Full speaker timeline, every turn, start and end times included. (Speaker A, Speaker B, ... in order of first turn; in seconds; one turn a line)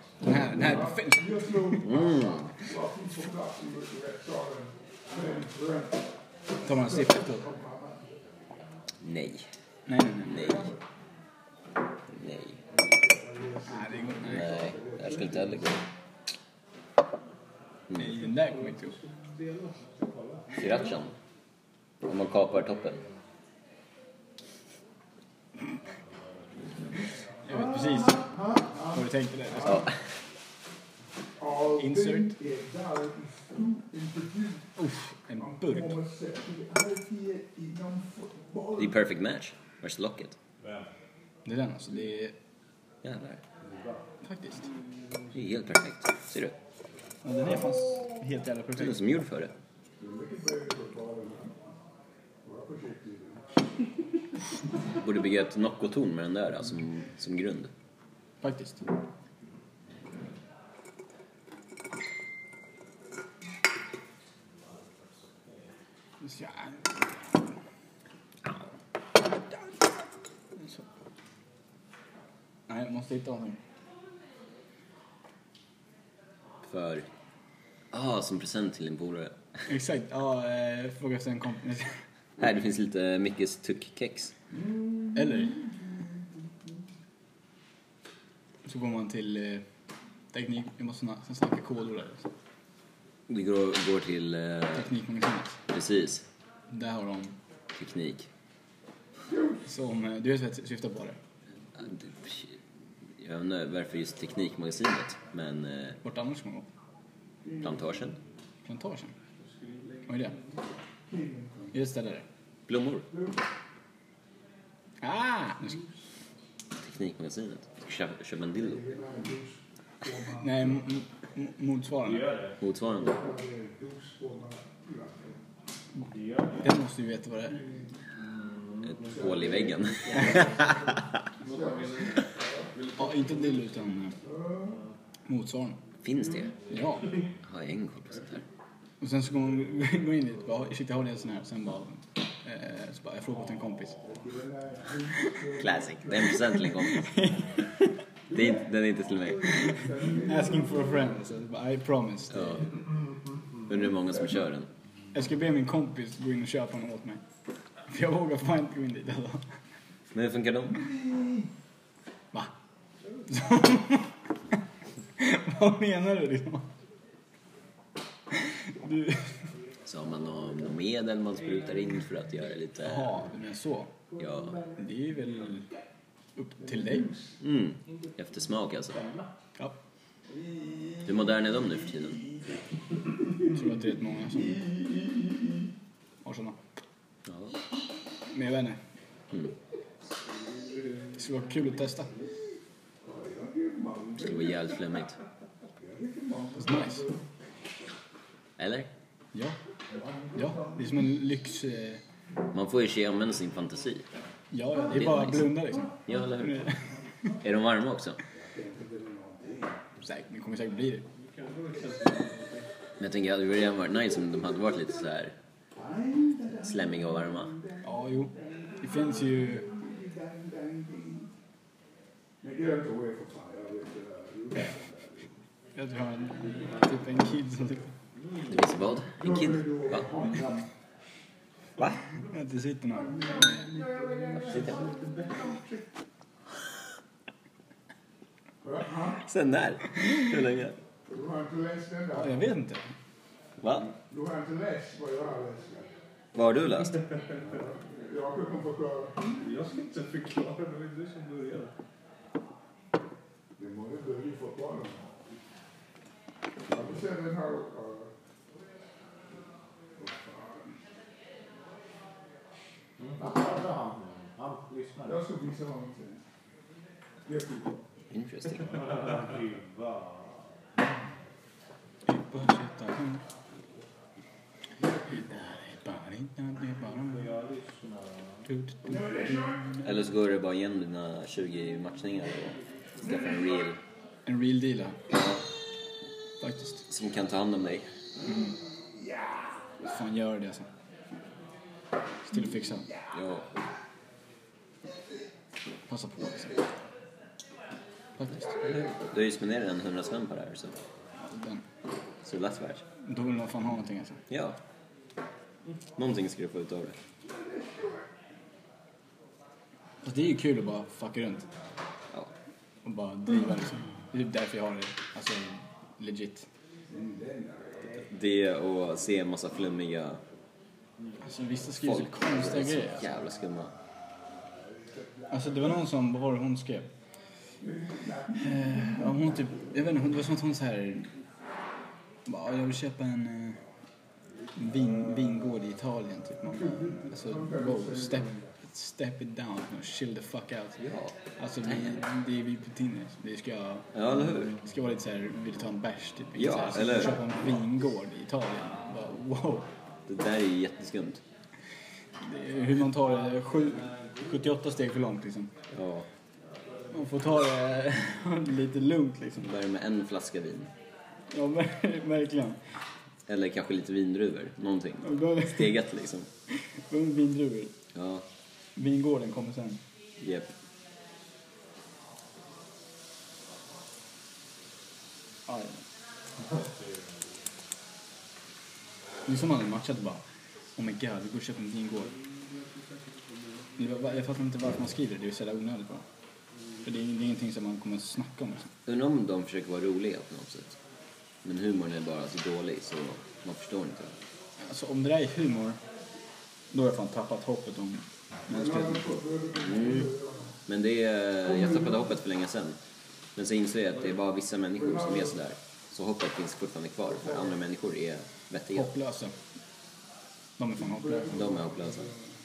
Speaker A: 0.2-1.9
Speaker B: 0.5-6.1
Speaker C: 1.8-2.5
Speaker A: 6.6-7.5
Speaker B: 6.7-8.2
Speaker C: 9.0-9.5
Speaker A: 9.9-10.6
Speaker C: 10.2-10.7
Speaker B: 10.3-10.8
Speaker C: 12.1-12.6
Speaker B: 12.7-15.6
Speaker A: 13.7-14.6
Speaker C: 14.3-15.8
Speaker A: 17.9-18.9
Speaker D: 18.8-20.8
Speaker E: 18.9-19.8
Speaker C: 20.6-21.1
Speaker C: 22.0-23.0
Speaker A: 27.4-28.2
Speaker B: 27.5-29.8
Speaker A: 28.9-29.9
Speaker C: 29.6-29.9
Speaker B: 31.4-34.7
Speaker A: 31.8-32.4
Speaker A: 34.8-36.0
Speaker B: 35.4-38.9
Speaker C: 38.8-40.4
Speaker A: 41.4-42.3
Speaker C: 43.0-43.4
Speaker D: 43.6-44.0
Speaker A: 44.2-44.7
Speaker C: 45.3-46.5
Speaker A: 47.2-49.0
Speaker C: 48.8-49.5
Speaker B: 50.0-51.6
Speaker B: 52.4-53.4
Speaker C: 55.0-57.7
Speaker A: 58.4-58.8
Speaker A: 66.2-67.0
Speaker A: 69.3-69.8
Speaker A: 70.6-70.8
Speaker A: 72.7-73.6
Speaker C: 76.6-77.1
Speaker C: 77.9-79.6
Speaker A: 79.7-82.0
Speaker C: 82.4-84.3
Speaker A: 85.1-85.6
Speaker A: 88.6-89.6
Speaker A: 90.3-92.3
Speaker C: 93.3-94.9
Speaker A: 94.7-95.6
Speaker C: 95.7-96.2
Speaker A: 96.7-97.3
Speaker C: 97.7-98.3
Speaker B: 99.3-99.6
Speaker A: 99.7-101.2
Speaker C: 101.7-102.6
Speaker C: 103.2-106.0
Speaker A: 106.0-106.7
Speaker B: 107.4-107.9
Speaker C: 107.6-108.2
Speaker A: 108.7-109.1
Speaker E: 109.4-110.5
Speaker A: 110.1-110.4
Speaker B: 111.1-111.7
Speaker A: 111.7-112.2
Speaker C: 112.7-113.1
Speaker A: 115.0-115.8
Speaker C: 116.8-118.8
Speaker B: 118.6-120.8
Speaker A: 120.3-122.4
Speaker C: 122.6-123.2
Speaker B: 122.9-125.4
Speaker D: 126.1-126.4
Speaker A: 126.6-127.6
Speaker B: 127.5-127.9
Speaker B: 129.0-132.7
Speaker C: 129.1-130.7
Speaker E: 131.4-133.7
Speaker A: 132.9-134.2
Speaker B: 134.2-134.8
Speaker A: 135.3-135.8
Speaker C: 136.0-136.5
Speaker A: 136.7-137.2
Speaker C: 137.4-138.4
Speaker A: 139.0-144.0
Speaker B: 144.0-146.5
Speaker C: 145.6-147.3
Speaker A: 146.3-147.6
Speaker C: 148.3-149.8
Speaker B: 148.3-148.6
Speaker B: 149.2-151.2
Speaker A: 150.1-152.7
Speaker C: 152.3-152.7
Speaker C: 153.7-154.7
Speaker A: 155.1-157.2
Speaker A: 157.9-159.5
Speaker C: 160.1-160.9
Speaker B: 160.8-161.4
Speaker A: 163.3-164.1
Speaker A: 165.2-166.7
Speaker A: 168.3-169.3
Speaker C: 169.8-173.1
Speaker A: 172.8-173.9
Speaker B: 174.2-174.8
Speaker C: 174.2-174.6
Speaker A: 174.8-175.7
Speaker A: 176.3-177.1
Speaker B: 176.6-177.4
Speaker C: 177.4-179.1
Speaker D: 178.9-179.3
Speaker B: 180.3-181.2
Speaker C: 181.0-182.2
Speaker A: 183.5-184.6
Speaker B: 184.4-185.7
Speaker A: 186.2-186.6
Speaker C: 187.2-187.5
Speaker A: 188.3-188.8
Speaker A: 191.1-192.1
Speaker B: 193.0-194.6
Speaker C: 194.2-195.2
Speaker B: 195.8-197.2
Speaker A: 196.6-197.1
Speaker C: 198.6-198.9
Speaker B: 199.9-200.9
Speaker A: 200.3-202.0
Speaker C: 202.5-204.1
Speaker A: 204.5-206.8
Speaker C: 204.9-206.7
Speaker C: 207.4-208.2
Speaker B: 208.5-209.8
Speaker A: 210.0-211.0
Speaker E: 211.2-212.7
Speaker C: 213.0-215.3
Speaker B: 215.8-221.3
Speaker C: 216.6-217.5
Speaker A: 217.8-219.7
Speaker B: 222.4-225.3
Speaker A: 225.8-227.9
Speaker C: 228.5-230.1
Speaker B: 229.2-230.7
Speaker C: 231.8-232.0
Speaker A: 232.3-233.7
Speaker B: 233.0-235.8
Speaker C: 234.5-234.8
Speaker B: 238.6-239.2
Speaker C: 239.2-240.8
Speaker B: 241.1-242.4
Speaker A: 242.2-242.9
Speaker C: 243.6-243.9
Speaker B: 244.0-245.9
Speaker C: 246.3-247.0
Speaker E: 246.9-247.4
Speaker B: 247.4-249.4
Speaker E: 249.3-251.7
Speaker B: 253.6-255.1
Speaker B: 256.7-258.1
Speaker B: 260.0-260.7
Speaker D: 263.0-265.1
Speaker B: 263.2-263.5
Speaker B: 265.0-266.2
Speaker B: 267.2-267.9
Speaker C: 268.1-268.8
Speaker D: 268.8-270.5
Speaker A: 272.1-273.2
Speaker A: 275.1-277.4
Speaker D: 277.1-278.4
Speaker A: 278.4-279.6
Speaker B: 278.9-279.7
Speaker C: 279.8-283.8
Speaker A: 284.2-285.0
Speaker C: 285.1-285.4
Speaker A: 286.4-286.8
Speaker C: 286.9-287.9
Speaker A: 288.2-288.5
Speaker B: 289.0-289.3
Speaker A: 289.8-290.7
Speaker A: 292.2-292.9
Speaker C: 293.1-293.5
Speaker A: 295.9-296.6
Speaker A: 298.2-298.5
Speaker C: 298.4-300.8
Speaker A: 301.2-301.6
Speaker C: 302.2-302.8
Speaker A: 303.0-304.2
Speaker C: 304.3-304.6
Speaker C: 305.9-306.9
Speaker B: 307.2-308.0
Speaker A: 310.0-311.5
Speaker A: 312.8-316.5
Speaker B: 316.9-317.9
Speaker C: 317.9-320.2
Speaker A: 321.2-323.1
Speaker C: 321.8-323.7
Speaker B: 324.9-325.6
Speaker A: 325.3-326.9
Speaker B: 327.6-329.5
Speaker A: 328.4-331.1
Speaker A: 332.2-333.6
Speaker A: 334.5-340.8
Speaker B: 336.6-338.5
Speaker C: 340.8-342.0
Speaker A: 341.4-349.7
Speaker C: 343.9-344.5
Speaker C: 346.3-347.3
Speaker C: 350.1-351.2
Speaker A: 352.2-355.5
Speaker D: 353.8-354.2
Speaker C: 355.7-356.1
Speaker A: 356.9-359.5
Speaker C: 359.4-360.7
Speaker A: 361.3-362.6
Speaker C: 363.3-366.3
Speaker A: 365.0-365.8
Speaker A: 366.5-367.7
Speaker C: 367.9-368.2
Speaker A: 368.8-369.8
Speaker C: 370.2-370.5
Speaker A: 375.5-375.8
Speaker A: 379.2-380.2
Speaker A: 380.8-382.1
Speaker A: 383.8-386.0
Speaker A: 386.8-388.7
Speaker C: 388.8-390.8
Speaker C: 391.4-394.1
Speaker A: 394.6-395.8
Speaker A: 396.7-399.2
Speaker B: 398.5-400.5
Speaker C: 399.6-400.1
Speaker C: 400.7-402.8
Speaker C: 403.4-408.9
Speaker B: 404.8-405.3
Speaker A: 408.7-409.3
Speaker A: 410.6-411.3
Speaker B: 410.8-412.2
Speaker C: 411.3-412.1